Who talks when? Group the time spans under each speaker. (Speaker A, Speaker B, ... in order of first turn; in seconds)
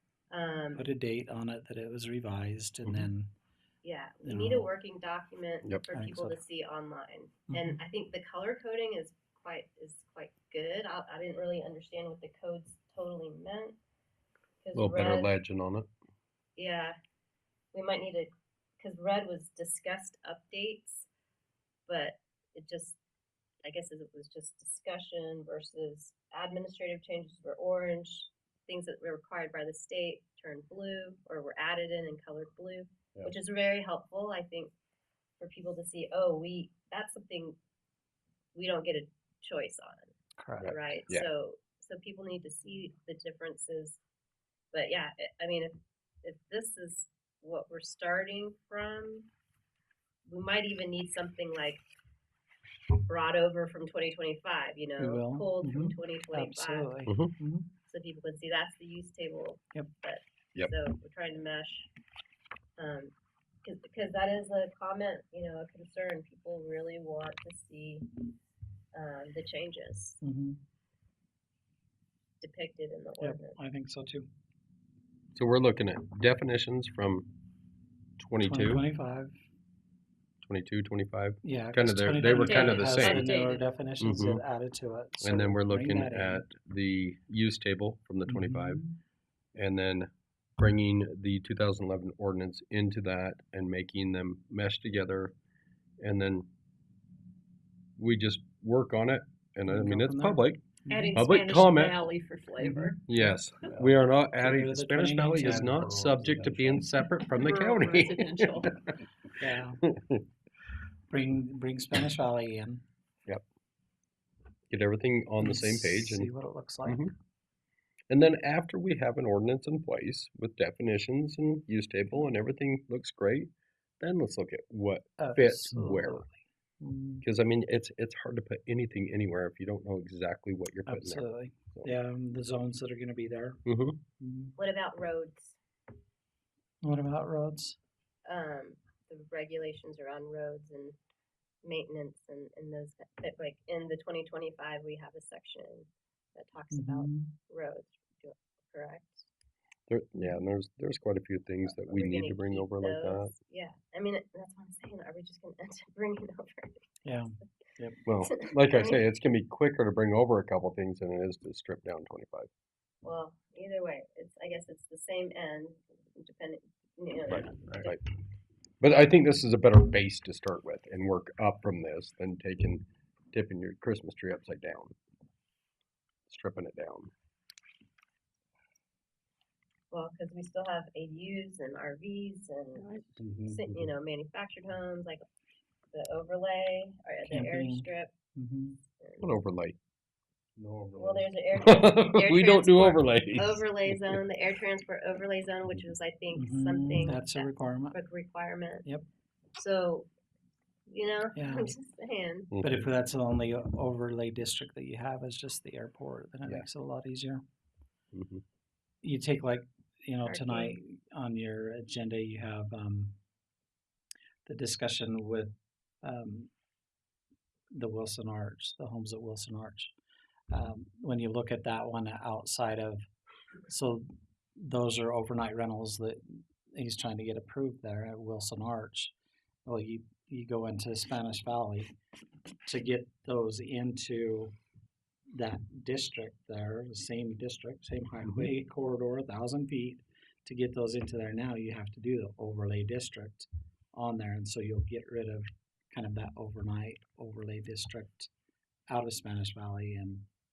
Speaker A: 0.3-0.9, 3.8-13.8, 14.6-15.3, 16.6-17.0, 17.7-21.1, 21.9-23.0, 23.6-34.7, 35.4-37.6, 38.5-44.0, 44.7-49.3, 50.3-51.8, 53.0-56.9, 57.9-61.9, 62.8-68.1, 68.9-70.2, 72.4-73.6, 82.4-83.6, 134.6-135.6, 138.3-141.0, 141.6-149.3, 151.7-156.9, 158.2-159.0, 163.0-168.0, 179.9-185.2, 185.9-188.1, 189.0-189.3, 190.9-198.9, 199.6-200.1, 200.9-202.5, 210.2-210.8
Speaker B: 0.8-3.3, 4.2-4.7, 5.9-6.4, 7.5-7.8, 40.4-40.8, 55.0-57.7, 70.2-70.6, 73.2-74.3, 78.4-79.4, 81.4-86.5, 88.3-89.0, 99.7-101.2, 102.6-103.2, 104.4-107.0, 109.4-109.8, 111.1-112.8, 115.4-117.1, 125.2-127.3, 130.9-133.6, 134.2-134.6, 136.8-137.8, 146.7-147.3, 157.0-158.0, 187.3-188.8, 196.3-198.0, 201.3-201.8, 202.6-207.4, 209.0-213.2, 214.5-216.5, 217.7-219.9, 220.5-223.0, 223.7-224.1, 224.6-229.1, 229.7-231.9, 232.7-234.5, 235.3-248.3, 248.9-250.3
Speaker C: 14.7-15.9, 40.6-41.3, 57.1-57.3, 75.3-77.3, 78.2-78.8, 80.4-83.2, 84.0-84.4, 85.2-88.8, 89.5-95.3, 96.0-96.5, 98.0-102.1, 103.0-109.0, 109.8-110.2, 114.7-116.3, 116.8-117.1, 118.1-126.3, 127.2-131.9, 133.7-134.0, 149.9-153.3, 158.1-162.5, 167.3-168.0, 168.8-174.9, 176.3-177.1, 183.2-183.6, 189.2-189.8, 190.6-194.2, 202.5-202.9, 208.1-208.4
Speaker D: 82.6-83.3, 100.9-103.1, 107.4-108.7